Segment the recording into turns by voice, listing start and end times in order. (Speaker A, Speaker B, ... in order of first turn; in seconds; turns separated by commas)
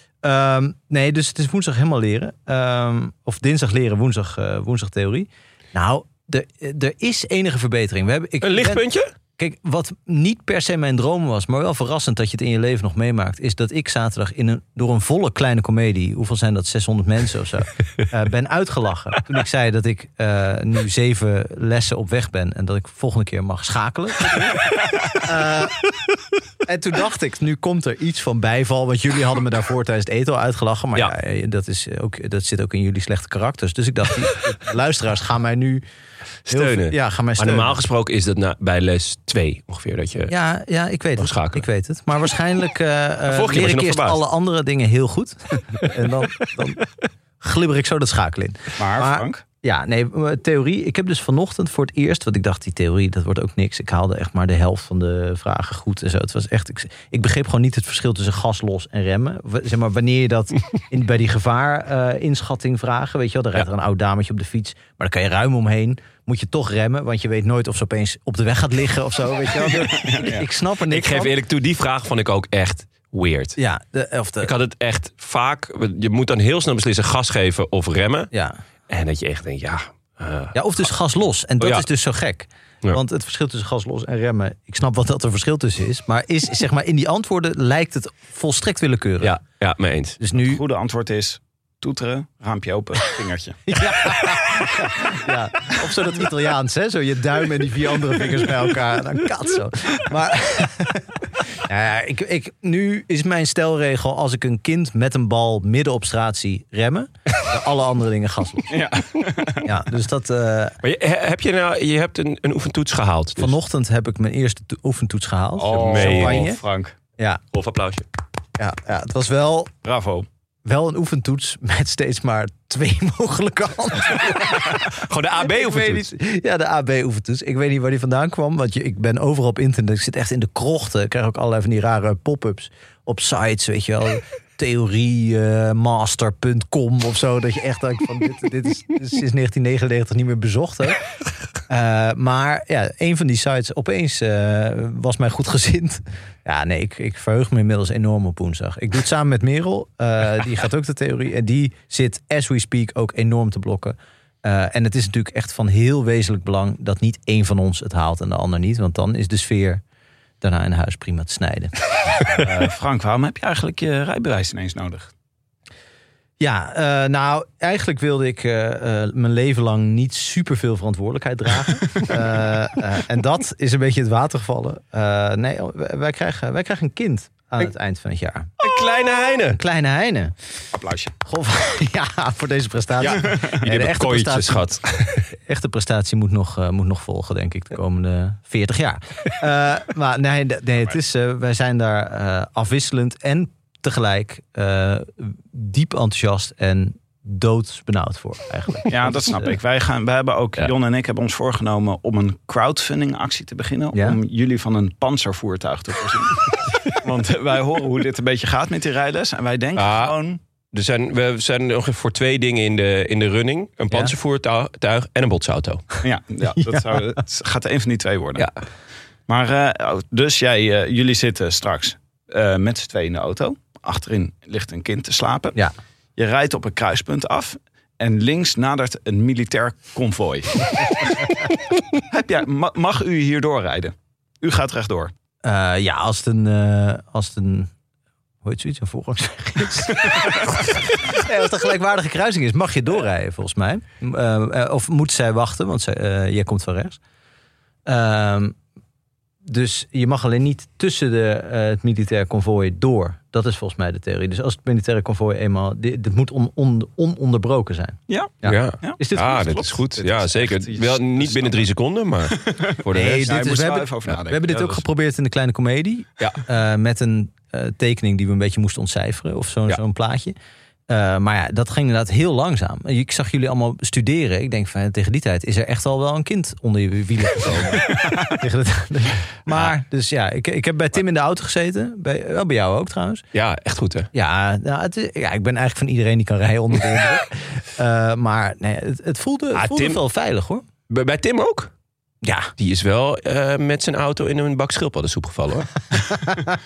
Speaker A: 0.2-8.8, Speaker B: 8.4-9.1, Speaker A: 9.4-24.5, Speaker B: 24.3-24.6, Speaker A: 25.2-25.8, Speaker A: 26.6-35.8, Speaker B: 36.5-40.3, Speaker A: 36.5-37.8, Speaker A: 40.3-46.8, Speaker B: 41.2-41.7, Speaker B: 43.3-44.2, Speaker A: 47.4-71.3, Speaker C: 48.8-49.4, Speaker C: 70.0-70.4, Speaker B: 70.9-73.6, Speaker A: 73.6-74.5, Speaker B: 74.4-78.3, Speaker A: 78.3-78.6, Speaker B: 78.9-80.6, Speaker A: 80.5-89.3, Speaker B: 81.6-81.8, Speaker B: 89.2-90.2, Speaker A: 90.2-90.6, Speaker C: 90.3-93.6, Speaker A: 93.7-108.7, Speaker C: 108.7-109.7, Speaker A: 109.6-110.8, Speaker B: 110.8-113.5, Speaker A: 113.4-116.6, Speaker C: 115.6-116.9, Speaker B: 115.7-116.5, Speaker B: 117.5-118.1, Speaker A: 118.6-119.7, Speaker C: 119.8-120.3, Speaker A: 120.6-124.9, Speaker B: 124.3-126.1, Speaker A: 125.4-141.0, Speaker A: 141.7-159.8, Speaker A: 160.4-161.8, Speaker C: 162.3-165.1, Speaker A: 166.4-178.5, Speaker B: 178.6-179.6, Speaker A: 179.5-180.3, Speaker C: 180.7-181.1, Speaker A: 181.2-184.7, Speaker B: 183.0-185.3, Speaker A: 185.4-199.5, Speaker C: 198.9-210.4, Speaker B: 209.8-210.1, Speaker B: 210.7-215.9, Speaker C: 216.0-218.5, Speaker C: 219.3-225.6, Speaker C: 226.2-231.2, Speaker C: 232.1-235.1, Speaker A: 235.4-237.7, Speaker A: 238.4-247.0, Speaker A: 247.8-248.6, Speaker A: 249.4-259.6, Speaker C: 258.1-261.6, Speaker B: 258.4-263.3, Speaker C: 262.3-264.8, Speaker A: 262.9-270.3, Speaker A: 270.9-283.2, Speaker B: 283.3-284.1, Speaker A: 284.1-290.6, Speaker B: 289.5-290.0, Speaker B: 290.9-291.7, Speaker A: 292.2-292.5, Speaker B: 292.6-295.8